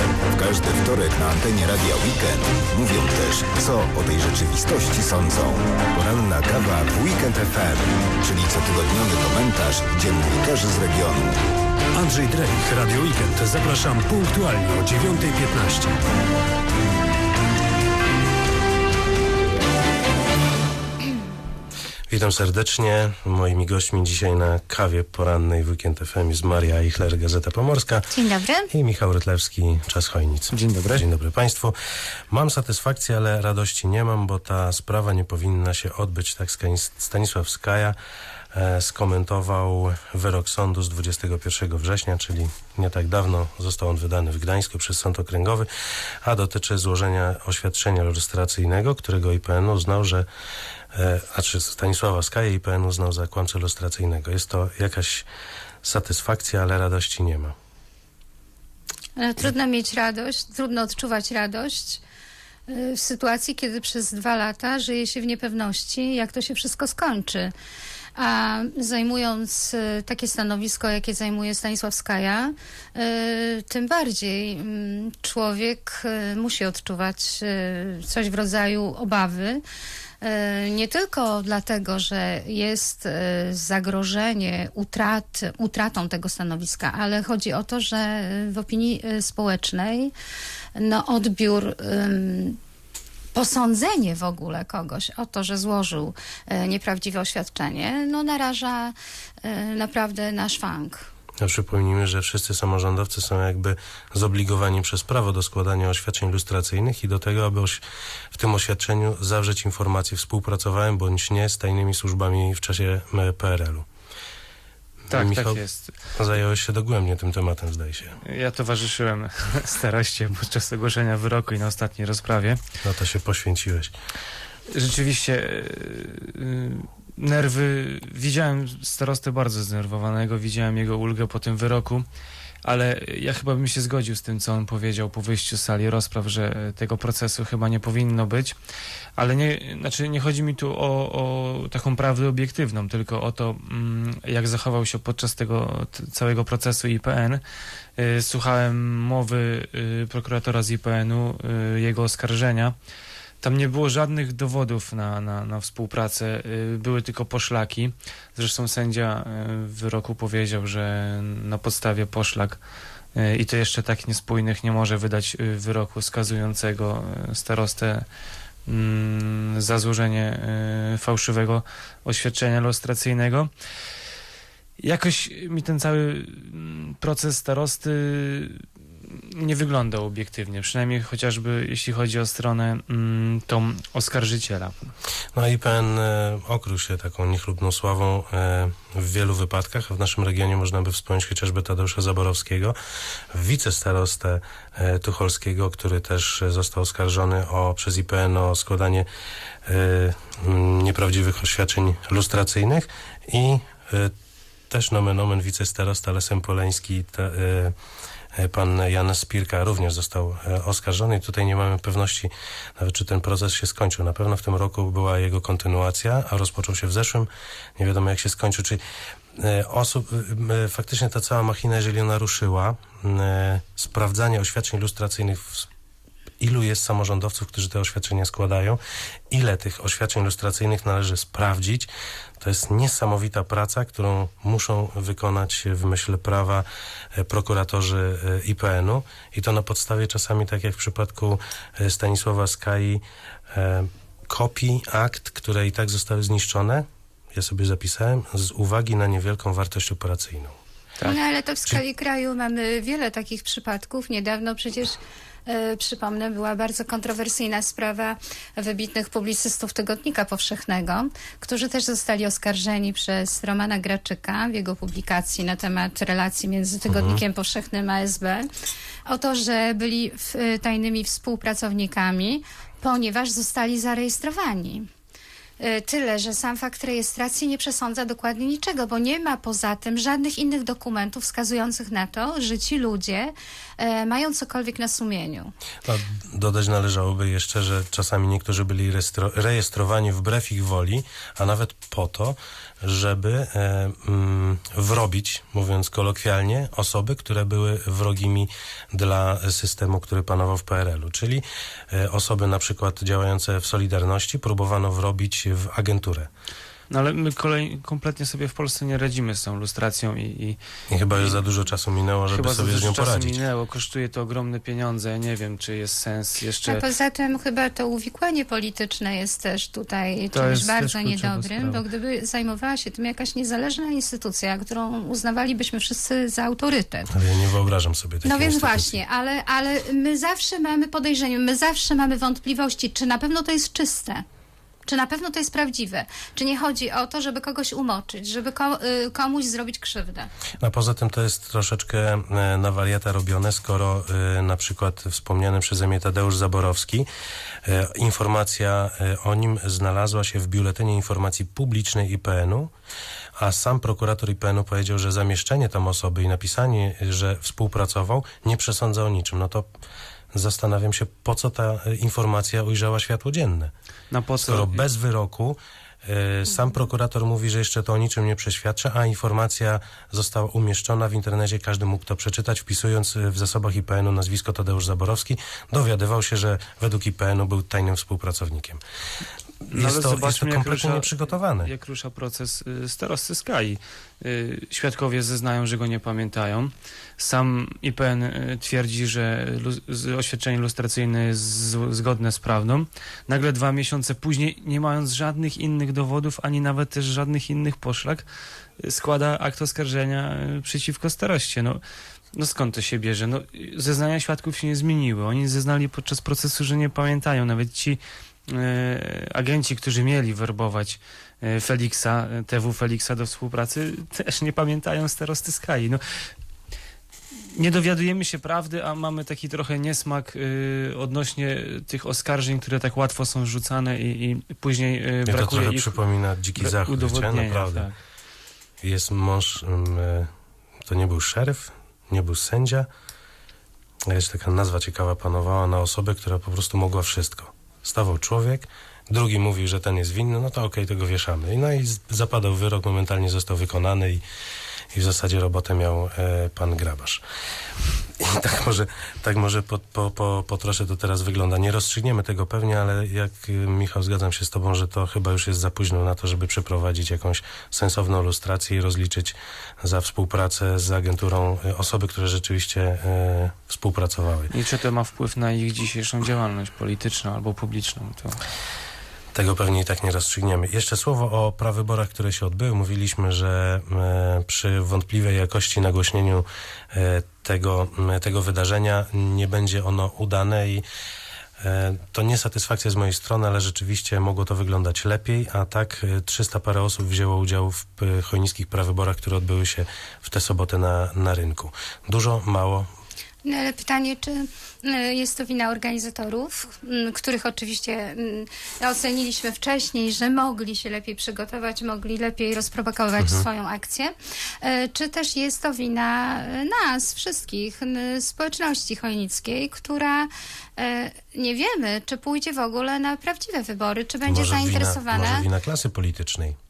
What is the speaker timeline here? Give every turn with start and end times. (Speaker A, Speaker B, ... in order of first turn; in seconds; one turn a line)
Speaker A: 0.3-11.4
Speaker B: 11.9-16.0
Speaker C: 22.1-28.1
Speaker D: 28.1-28.7
Speaker C: 28.7-31.8
Speaker E: 30.5-31.0
Speaker C: 32.3-38.0
Speaker C: 38.5-45.7
Speaker C: 46.2-50.2
Speaker C: 50.9-55.2
Speaker C: 55.8-57.5
Speaker D: 59.2-62.0
Speaker D: 62.7-67.5
Speaker D: 68.2-79.6
Speaker D: 80.2-90.1
Speaker D: 90.7-92.6
Speaker D: 93.3-101.1
Speaker C: 101.4-113.8
Speaker E: 115.1-115.9
Speaker C: 115.1-118.2
Speaker E: 118.2-122.6
Speaker C: 122.8-123.9
Speaker E: 124.7-132.1
Speaker E: 132.6-138.6
Speaker E: 139.2-147.4
Speaker E: 148.0-152.7
Speaker E: 153.4-162.6
Speaker E: 163.1-168.1
Speaker E: 168.7-173.5
Speaker E: 174.8-184.9
Speaker C: 185.3-192.8
Speaker C: 193.3-199.1
Speaker C: 199.6-204.1
Speaker C: 204.7-207.7
Speaker C: 208.3-218.8
Speaker C: 219.4-225.7
Speaker C: 226.4-231.9
Speaker C: 232.4-250.6
Speaker D: 251.0-268.4
Speaker C: 266.9-267.2
Speaker D: 269.1-274.9
Speaker D: 275.6-285.5
Speaker C: 285.8-306.3
Speaker E: 306.9-310.6
Speaker C: 310.9-313.4
Speaker E: 311.1-311.4
Speaker E: 312.3-316.9
Speaker D: 316.6-327.1
Speaker E: 320.3-321.8
Speaker C: 327.1-329.0
Speaker D: 328.2-334.2
Speaker D: 334.9-340.3
Speaker C: 340.6-347.1
Speaker C: 347.6-352.7
Speaker C: 353.4-359.7
Speaker C: 360.3-363.7
Speaker E: 364.1-364.8
Speaker C: 364.4-378.8
Speaker E: 379.7-398.2
Speaker C: 379.7-381.7
Speaker E: 398.8-401.8
Speaker E: 402.3-416.0
Speaker E: 417.5-426.0
Speaker C: 425.2-427.9
Speaker E: 426.6-427.9
Speaker C: 428.8-430.3
Speaker C: 430.9-432.9
Speaker C: 434.1-444.2
Speaker C: 444.9-447.2
Speaker C: 448.2-464.5
Speaker E: 464.5-468.4
Speaker C: 469.3-480.8
Speaker C: 481.6-492.9
Speaker D: 493.4-515.5
Speaker C: 503.2-503.5
Speaker C: 514.2-516.5